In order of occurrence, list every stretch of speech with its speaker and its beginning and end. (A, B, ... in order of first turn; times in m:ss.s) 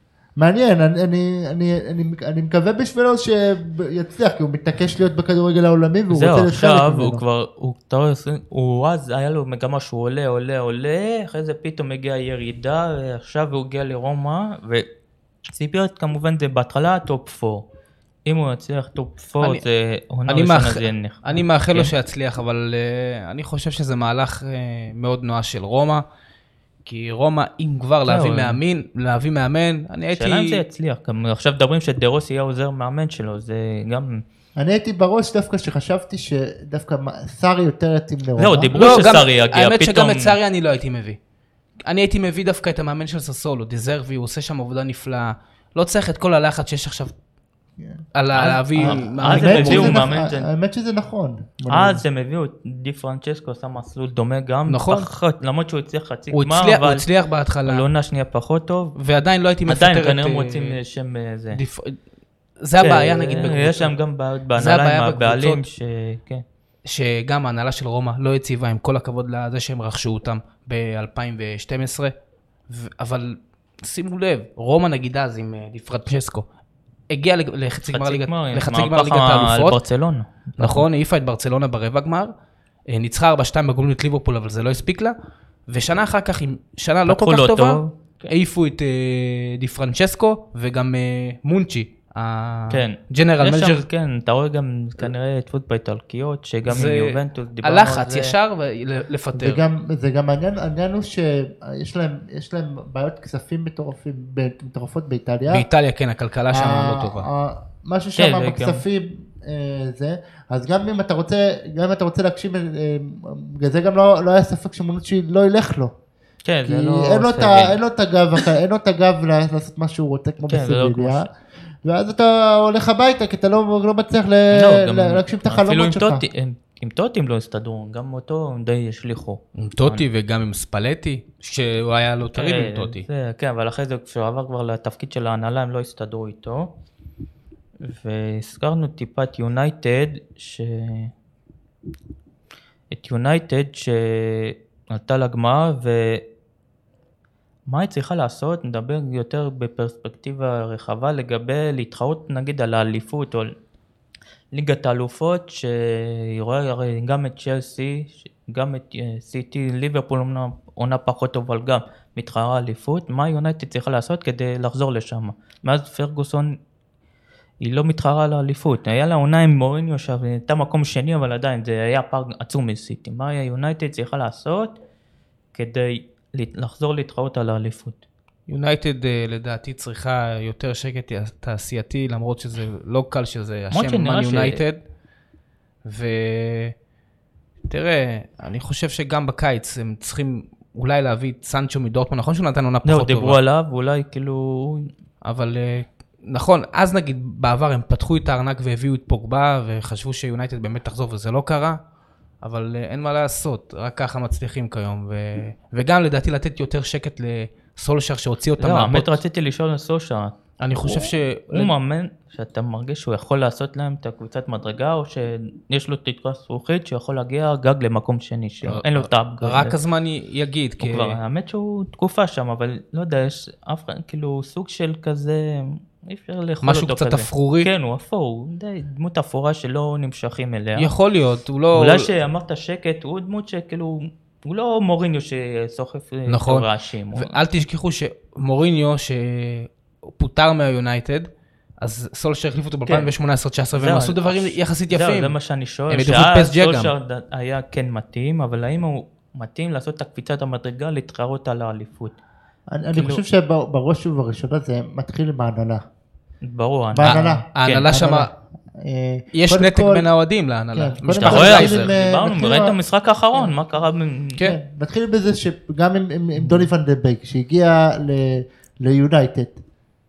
0:00.4-0:07.2 A
0:06.1-0:14.9 B
0:15.5-0:17.6 B
0:18.2-0:21.9 B
0:20.3-0:26.0 C
0:26.8-0:30.6 C
0:28.1-0:28.6 B
0:30.1-0:34.2 B
0:34.6-0:39.2 A
0:38.4-0:40.3 B
0:38.7-0:41.2 C
0:41.8-0:47.1 C
0:47.8-0:52.0 A
0:48.1-0:50.1 C
0:48.4-0:50.5 B
0:51.7-0:57.0 B
0:54.7-0:55.1 C
0:56.3-0:57.9 C
0:57.6-0:59.0 B
0:59.0-1:00.8 C
0:59.7-1:01.6 B
1:01.5-1:02.0 C
1:02.6-1:03.9 C
1:02.8-1:06.4 B
1:04.6-1:05.6 C
1:06.8-1:12.1 C
1:12.7-1:16.4 C
1:17.1-1:19.8 C
1:17.9-1:20.8 B
1:20.6-1:22.3 C
1:22.9-1:25.1 C
1:25.7-1:33.8 C
1:27.1-1:27.9 B
1:32.7-1:38.3 B
1:36.6-1:39.6 C
1:39.3-1:45.6 A
1:45.5-1:47.3 C
1:46.5-1:55.9 A
1:48.2-1:48.8 B
1:56.4-1:57.8 B
1:56.6-2:01.3 A
2:00.5-2:01.3 B
2:01.8-2:06.2 A
2:04.5-2:10.0 B
2:09.6-2:13.0 C
2:12.3-2:16.7 B
2:17.8-2:21.1 B
2:22.9-2:26.2 B
2:27.7-2:33.5 B
2:34.5-2:46.6 B
2:47.6-2:54.8 B
2:55.5-2:58.0 B
2:58.5-3:04.8 C
3:03.7-3:04.6 B
3:05.8-3:06.7 C
3:07.7-3:13.4 C
3:12.8-3:14.9 B
3:15.2-3:21.8 C
3:22.4-3:29.2 C
3:28.6-3:39.7 B
3:30.6-3:31.7 C
3:38.6-3:41.2 C
3:40.8-3:50.9 B
3:46.6-3:47.7 C
3:50.8-3:52.1 C
3:51.7-3:57.3 B
3:56.3-4:01.3 C
4:01.8-4:05.3 C
4:03.7-4:12.2 B
4:05.9-4:06.9 C
4:12.7-4:15.8 A
4:12.9-4:13.2 B
4:16.4-4:17.9 B
4:16.9-4:20.1 A
4:17.0-4:18.3 C
4:19.3-4:21.9 C
4:20.7-4:22.8 A
4:21.2-4:24.4 B
4:24.4-4:29.6 A